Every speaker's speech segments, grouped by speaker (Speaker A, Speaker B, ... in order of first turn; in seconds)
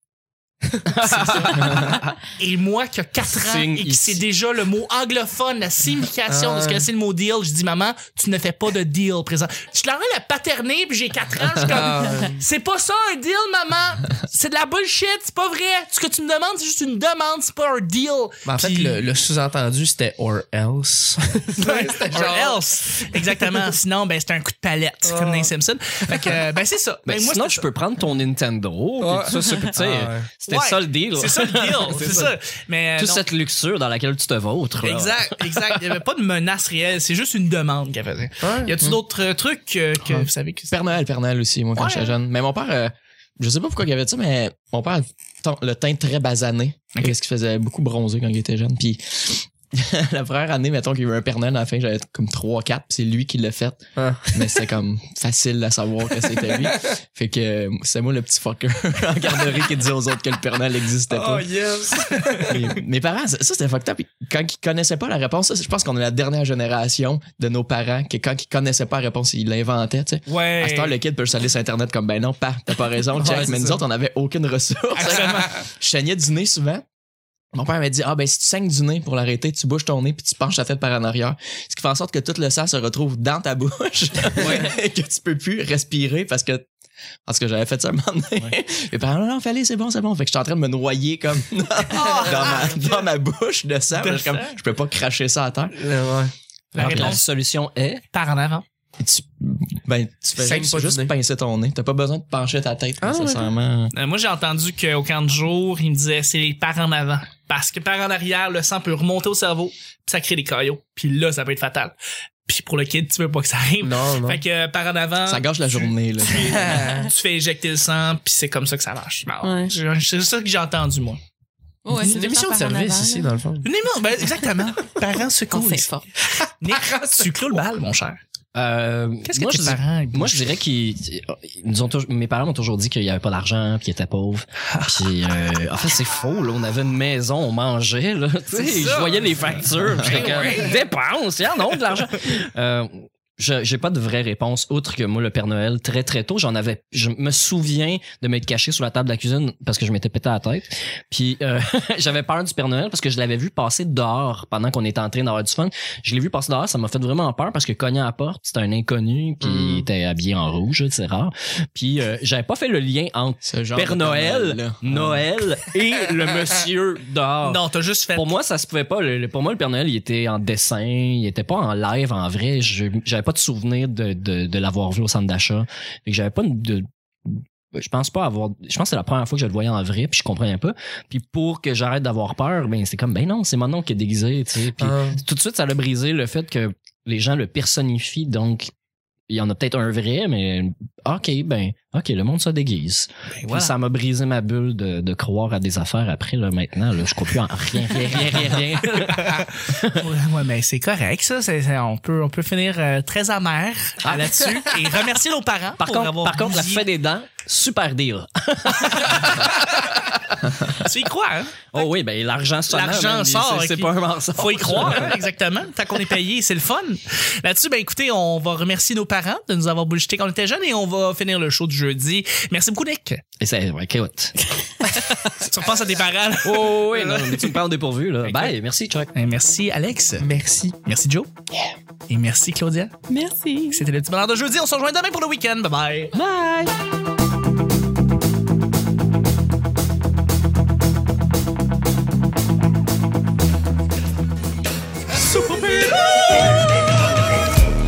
Speaker A: 0.7-1.6, 6.3-6.9, 11.6-12.4, 18.5-23.7, 25.1-25.5, 29.0-30.3, 38.4-38.8, 54.0-54.6, 56.2-56.8, 61.1-62.6, 73.2-73.8, 75.2-75.5, 92.0-92.4, 95.8-96.3, 100.4-101.1, 103.0-103.5, 113.8-114.4, 116.4-117.1, 121.9-123.7, 126.5-127.3, 159.4-159.9, 184.8-185.2, 230.2-230.8
Speaker B: 0.9-2.1, 3.3-4.2, 27.1-32.3, 33.0-36.0, 84.4-84.7, 96.8-98.0, 128.6-167.6, 168.2-188.7, 189.3-200.1, 204.1-204.6, 205.8-210.2, 211.7-215.2, 223.4-225.5, 226.4-229.1, 236.2-236.7
Speaker C: 1.2-19.0, 21.6-27.6, 30.5-33.2, 34.8-40.7, 41.8-42.1, 62.1-62.5, 70.3-71.0, 73.2-73.6, 75.0-75.6, 91.9-93.0, 94.0-94.6, 96.8-97.2, 98.1-98.6, 103.9-111.9, 112.5-121.2, 123.6-125.9, 126.6-128.2, 129.3-130.6, 138.5-140.8, 167.4-168.3, 193.4-193.7, 198.9-206.8, 208.8-209.6, 210.7-211.9, 212.7-223.2, 225.4-227.6, 228.2-228.5, 229.2-230.3, 230.8-231.3, 232.1-232.9, 233.7-236.2
Speaker D: 40.1-61.5, 62.4-76.8, 77.5-86.7, 87.3-95.8, 96.7-97.2, 99.0-103.9, 115.3-116.8, 163.4-165.3, 245.1-246.7
Speaker E: 119.4-119.7, 121.8-123.4, 125.5-126.1, 233.1-233.9